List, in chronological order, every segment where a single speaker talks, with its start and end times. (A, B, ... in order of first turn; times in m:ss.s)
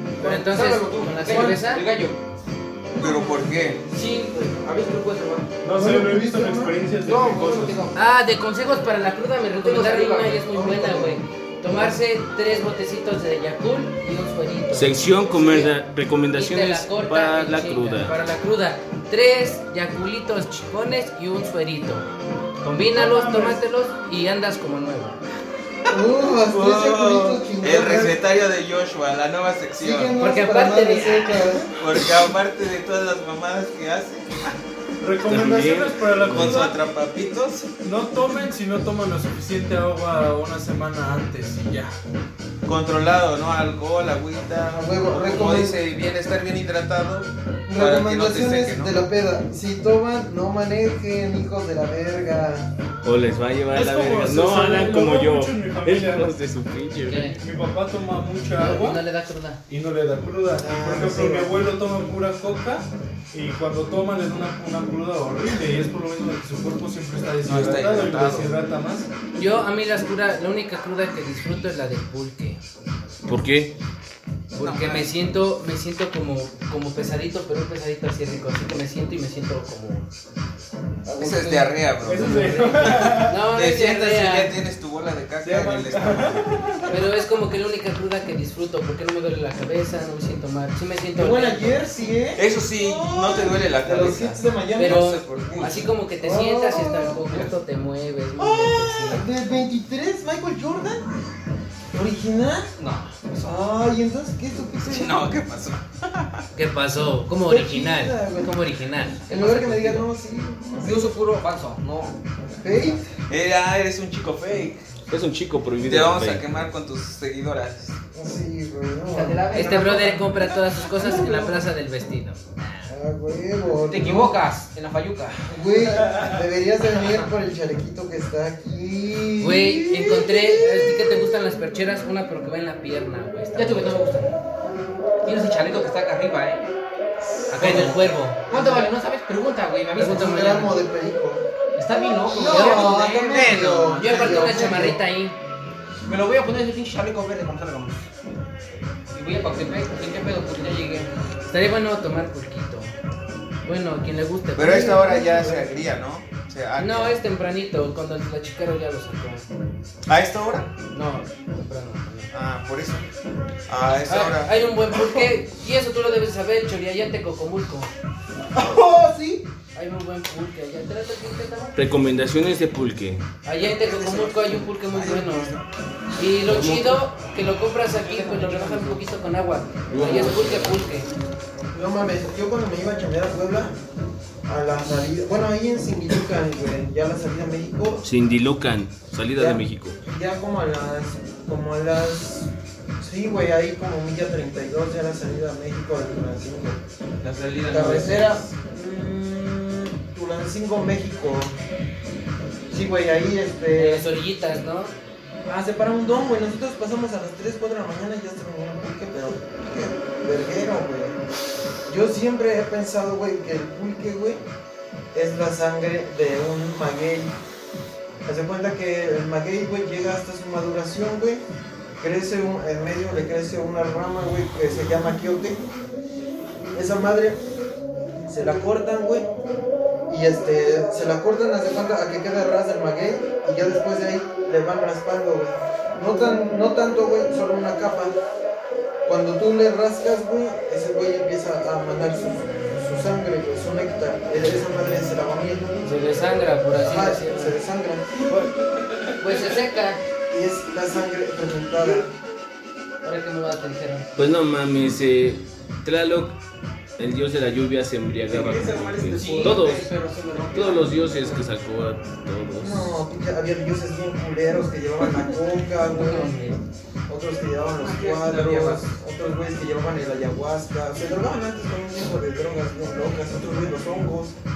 0:00.2-0:01.8 A
0:00.2-0:02.2 B
0:01.2-0:01.6 C
0:02.9-0:03.7 C
0:03.0-0:03.8 D
0:03.9-0:05.6 B
0:05.6-0:07.8 E
0:05.7-0:06.8 C
0:06.9-0:07.9 B
0:07.9-0:15.0 A
0:09.6-0:11.1 B
0:10.5-0:12.0 C
0:14.7-0:18.1 F
0:16.3-0:22.1 A
0:22.6-0:25.2 A
0:22.8-0:23.6 E
0:25.9-0:30.1 D
0:25.9-0:28.2 C
0:29.8-0:31.7 C
0:30.2-0:31.7 A
0:31.8-0:34.6 D
0:35.0-0:36.8 E
0:35.3-0:36.7 F
0:36.3-0:37.7 D
0:37.8-0:41.9 E
0:42.6-0:49.0 D
0:44.7-0:45.8 C
0:47.6-0:52.7 C
0:53.0-0:57.3 F
0:53.7-0:56.3 E
0:57.1-0:57.4 A
0:57.3-0:59.0 E
0:58.5-0:59.6 A
0:59.7-1:09.1 E
1:00.6-1:01.6 C
1:07.4-1:08.5 D
1:09.3-1:12.6 A
1:13.2-1:13.7 F
1:14.5-1:15.1 D
1:14.6-1:20.1 A
1:21.1-1:24.6 A
1:21.2-1:27.0 D
1:22.0-1:23.4 E
1:25.4-1:27.0 E
1:26.9-1:31.8 A
1:31.1-1:37.5 C
1:32.4-1:35.9 D
1:34.8-1:39.2 A
1:38.4-1:41.0 C
1:41.9-1:42.7 C
1:42.8-1:43.6 B
1:43.4-1:45.4 C
1:44.8-1:46.4 D
1:46.5-1:50.1 A
1:47.4-1:48.6 C
1:49.1-1:51.0 C
1:50.8-1:52.2 B
1:52.6-1:53.1 C
1:53.3-1:54.9 D
1:55.1-1:56.4 F
1:55.8-1:58.0 D
1:58.1-1:59.9 C
1:59.1-2:00.4 B
1:59.5-2:02.5 A
2:01.2-2:01.5 B
2:02.8-2:04.4 C
2:03.8-2:05.4 B
2:05.5-2:11.0 C
2:09.4-2:14.3 A
2:13.6-2:14.4 B
2:15.2-2:16.7 B
2:17.5-2:18.5 A
2:17.6-2:18.9 C
2:17.6-2:20.5 B
2:20.0-2:21.4 C
2:20.0-2:20.7 A
2:21.8-2:24.5 B
2:22.3-2:25.0 C
2:22.4-2:22.8 A
2:23.3-2:24.4 D
2:24.0-2:25.4 A
2:26.0-2:28.1 B
2:29.1-2:31.1 B
2:31.5-2:32.9 A
2:33.6-2:35.7 A
2:34.6-2:37.2 D
2:34.6-2:35.7 C
2:36.8-2:39.4 A
2:40.1-2:40.7 D
2:40.9-2:42.3 A
2:42.3-2:43.1 D
2:43.7-2:44.6 D
2:44.0-2:47.9 A
2:48.5-2:49.4 C
2:49.7-2:51.8 A
2:51.7-2:53.2 F
2:53.4-2:55.5 A
2:53.5-2:55.6 D
2:56.2-3:01.1 A
2:56.4-2:57.0 F
2:57.9-2:59.0 B
2:59.9-3:00.8 F
3:01.7-3:03.7 C
3:04.4-3:08.0 C
3:08.0-3:10.0 F
3:09.3-3:16.8 C
3:17.2-3:18.5 D
3:17.7-3:21.5 C
3:22.7-3:24.1 C
3:23.8-3:24.9 A
3:25.4-3:31.2 C
3:31.9-3:34.4 C
3:35.1-3:37.4 C
3:38.2-3:41.4 C
3:42.0-3:45.6 C
3:46.7-3:47.4 C
3:48.3-3:49.3 C
3:50.1-3:58.1 C
3:59.0-4:06.1 C
4:05.8-4:07.6 A
4:06.8-4:08.4 C
4:09.2-4:10.0 A
4:10.3-4:12.1 C
4:13.0-4:14.1 A
4:14.2-4:16.4 F
4:17.0-4:19.9 F
4:18.3-4:19.6 D
4:19.1-4:20.9 B
4:19.1-4:21.1 C
4:20.5-4:23.0 F
4:22.6-4:26.4 C
4:25.9-4:26.6 A
4:27.1-4:34.3 C
4:27.8-4:28.7 B